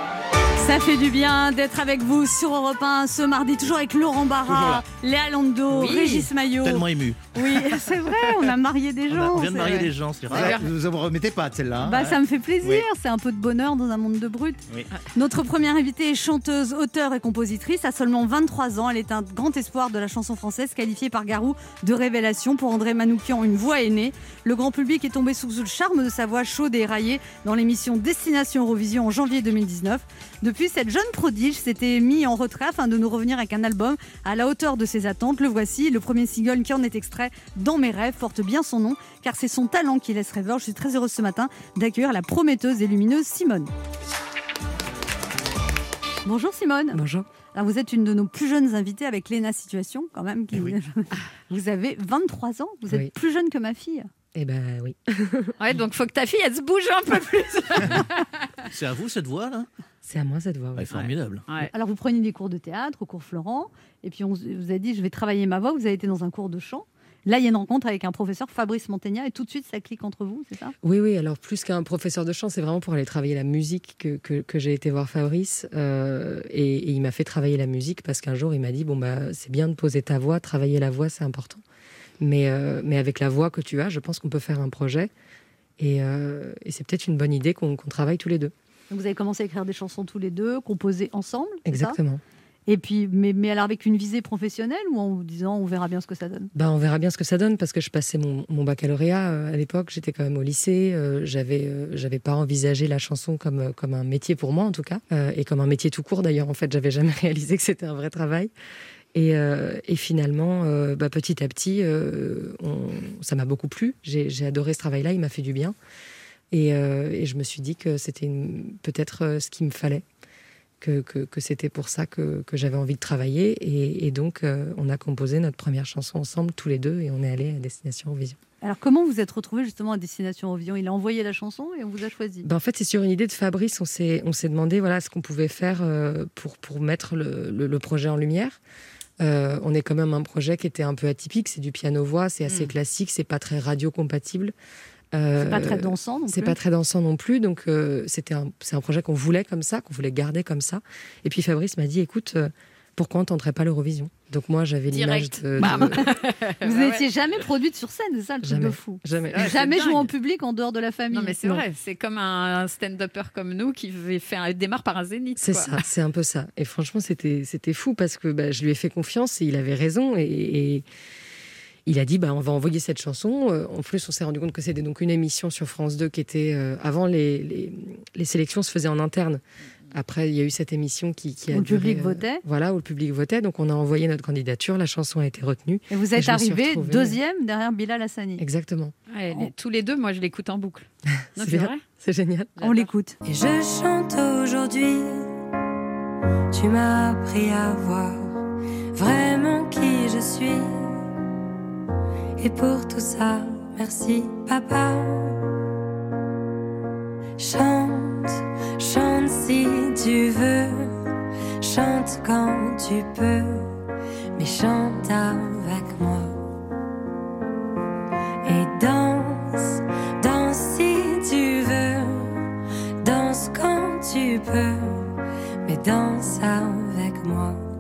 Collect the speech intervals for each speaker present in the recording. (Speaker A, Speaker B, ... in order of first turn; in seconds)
Speaker A: 0.6-9.9, 11.8-14.6, 15.2-43.7, 46.2-54.1, 61.7-70.8, 88.9-92.0, 92.7-96.5, 128.6-132.5, 145.4-146.6, 155.6-161.4, 181.5-182.4, 185.9-188.4, 192.6-193.2
Speaker B: 4.5-4.8, 10.3-12.9
Speaker C: 5.7-6.3, 9.6-10.7, 55.6-58.3, 142.5-142.7, 154.9-157.1, 159.3-160.1, 161.1-165.8, 189.1-191.8, 192.6-192.9
Speaker D: 6.6-7.2, 9.1-10.6, 58.7-59.7, 60.8-61.5
Speaker E: 46.9-47.3, 54.4-55.5, 60.0-61.0, 70.8-81.6, 82.2-85.1, 85.8-88.5, 91.7-92.2, 96.5-108.5, 109.1-115.8, 116.5-120.0, 120.8-128.4, 132.4-138.6, 139.2-144.5, 145.1-156.1, 158.4-159.6, 165.4-170.8, 171.9-187.2, 188.4-188.9, 191.4-192.6
Speaker F: 193.3-195.0, 196.6-198.1, 199.0-200.6, 202.4-205.0, 207.4-208.0, 208.9-210.6, 211.7-213.6, 214.4-216.2, 218.5-219.3, 220.2-221.9, 223.1-224.7, 225.7-227.5